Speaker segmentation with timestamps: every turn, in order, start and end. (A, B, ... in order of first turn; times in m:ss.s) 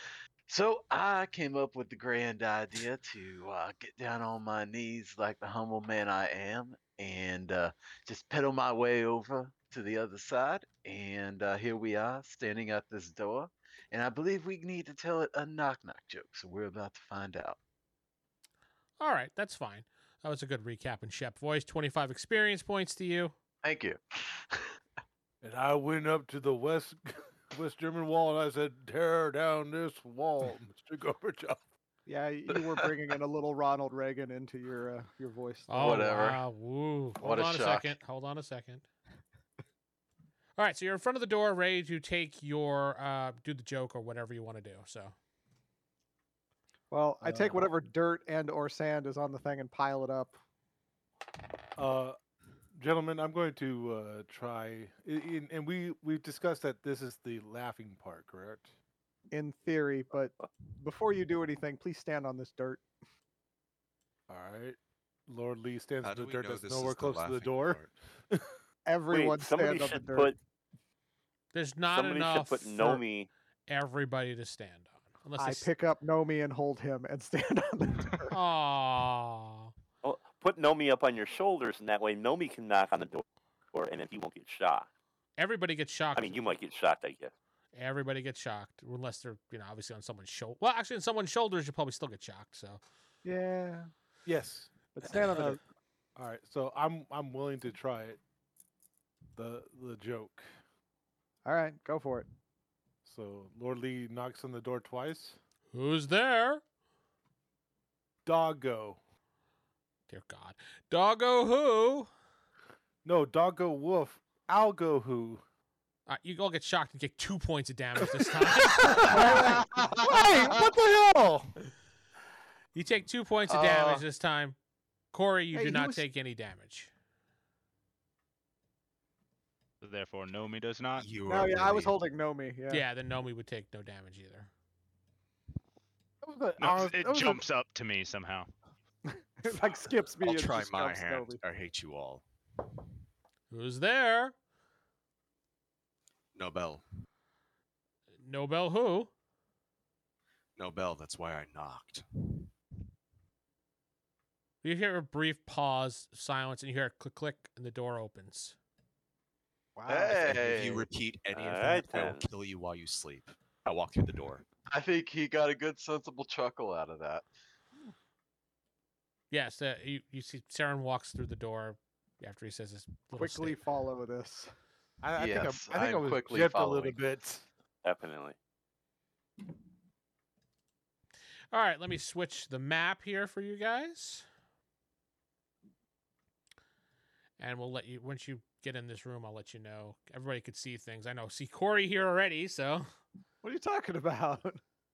0:00.5-0:17.6 A
0:19.0-0:23.3 B
0:23.6-0:24.7 A
0:25.4-0:31.6 C
0:32.0-0:36.1 D
0:35.7-0:38.8 B
0:35.8-0:36.4 A
0:37.2-0:38.0 A
0:40.6-0:45.1 B
0:46.9-0:50.4 D
0:47.2-0:47.6 C
0:51.8-0:52.2 C
0:52.8-0:58.7 C
0:59.3-1:02.8 D
1:04.3-1:08.6 C
1:06.0-1:07.9 E
1:08.8-1:10.3 D
1:09.1-1:10.4 F
1:11.5-1:13.0 B
1:11.9-1:13.3 F
1:13.7-1:15.7 B
1:15.4-1:18.3 D
1:18.3-1:19.7 B
1:20.0-1:24.9 F
1:25.4-1:26.4 B
1:26.1-1:27.3 F
1:27.7-1:32.8 B
1:33.2-1:33.9 D
1:34.2-1:35.6 C
1:34.9-1:35.6 D
1:36.2-1:38.2 C
1:39.4-1:40.4 C
1:41.4-1:42.3 D
1:43.0-1:45.4 C
1:45.7-1:46.6 B
1:48.2-1:49.0 C
1:50.1-1:52.1 B
1:53.0-1:55.4 C
1:56.1-1:59.4 B
1:58.0-2:01.5 C
1:59.0-2:00.6 D
2:02.7-2:04.6 B
2:03.5-2:04.0 A
2:05.1-2:06.9 B
2:05.5-2:06.0 D
2:09.8-2:11.1 G
2:11.0-2:12.0 E
2:11.2-2:12.8 D
2:12.7-2:14.5 B
2:16.2-2:17.4 C
2:16.6-2:18.5 G
2:19.1-2:21.4 D
2:20.2-2:22.2 E
2:23.5-2:24.4 B
2:26.3-2:26.8 E
2:28.2-2:29.1 B
2:30.6-2:32.0 E
2:34.6-2:38.6 B
2:39.8-2:40.3 D
2:39.9-2:40.9 A
2:40.1-2:44.4 E
2:41.3-2:42.3 F
2:44.7-2:47.2 A
2:49.3-2:53.6 B
2:53.2-2:54.5 D
2:55.0-2:57.4 C
2:55.1-2:57.0 A
2:57.8-2:58.4 F
3:01.5-3:04.2 B
3:07.4-3:12.8 B
3:13.4-3:14.6 D